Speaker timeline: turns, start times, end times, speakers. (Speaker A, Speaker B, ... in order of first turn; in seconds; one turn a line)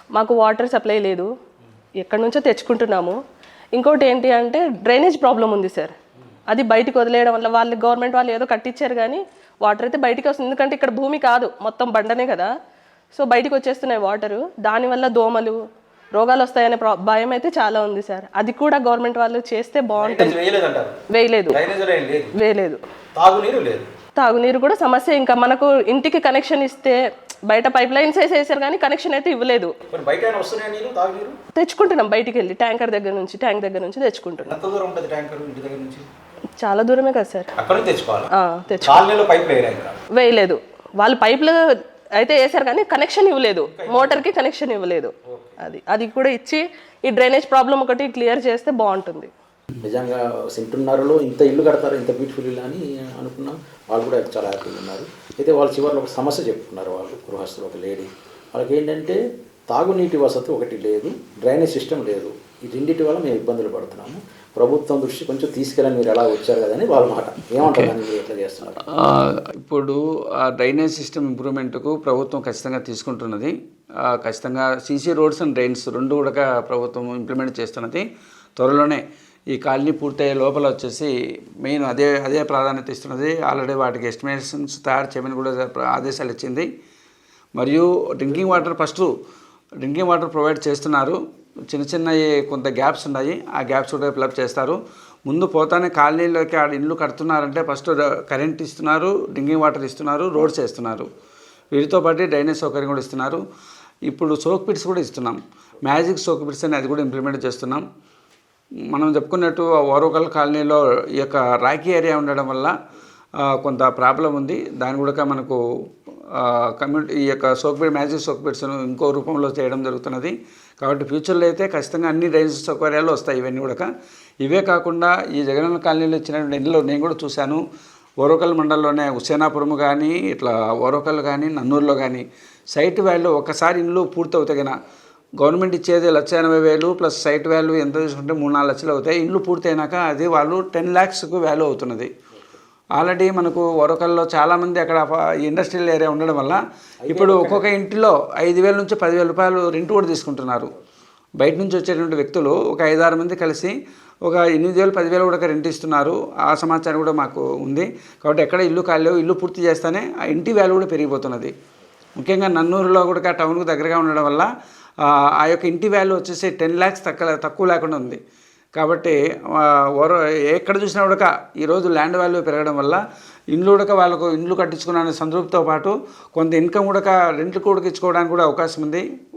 Speaker A: 0.1-1.3
Speaker A: 2.0-3.2
Speaker A: 3.8-6.0
Speaker A: 6.5-12.5
Speaker A: 13.1-15.6
Speaker A: 16.1-20.4
Speaker B: 20.0-21.0
Speaker A: 21.1-21.6
Speaker B: 21.5-22.3
Speaker A: 22.3-22.8
Speaker B: 23.2-23.9
Speaker A: 24.2-29.8
Speaker B: 29.9-31.4
Speaker A: 31.5-34.6
Speaker B: 34.5-36.0
Speaker A: 36.6-37.5
Speaker B: 37.6-38.3
Speaker A: 38.3-39.0
Speaker B: 38.8-40.0
Speaker A: 40.1-41.6
Speaker A: 42.2-49.3
Speaker B: 43.7-44.2
Speaker B: 49.8-68.9
Speaker C: 68.9-78.0
Speaker C: 78.6-86.7
Speaker C: 87.6-89.1
Speaker C: 89.8-101.1
Speaker C: 101.7-103.4
Speaker C: 104.1-107.8
Speaker C: 108.9-112.7
Speaker C: 113.4-115.6
Speaker C: 116.3-123.9
Speaker C: 124.4-127.6
Speaker C: 128.2-134.8
Speaker C: 135.4-142.1
Speaker C: 142.9-150.7
Speaker B: 147.0-147.7
Speaker C: 151.4-161.5
Speaker C: 162.2-164.5
Speaker C: 165.0-168.2
Speaker C: 168.8-179.0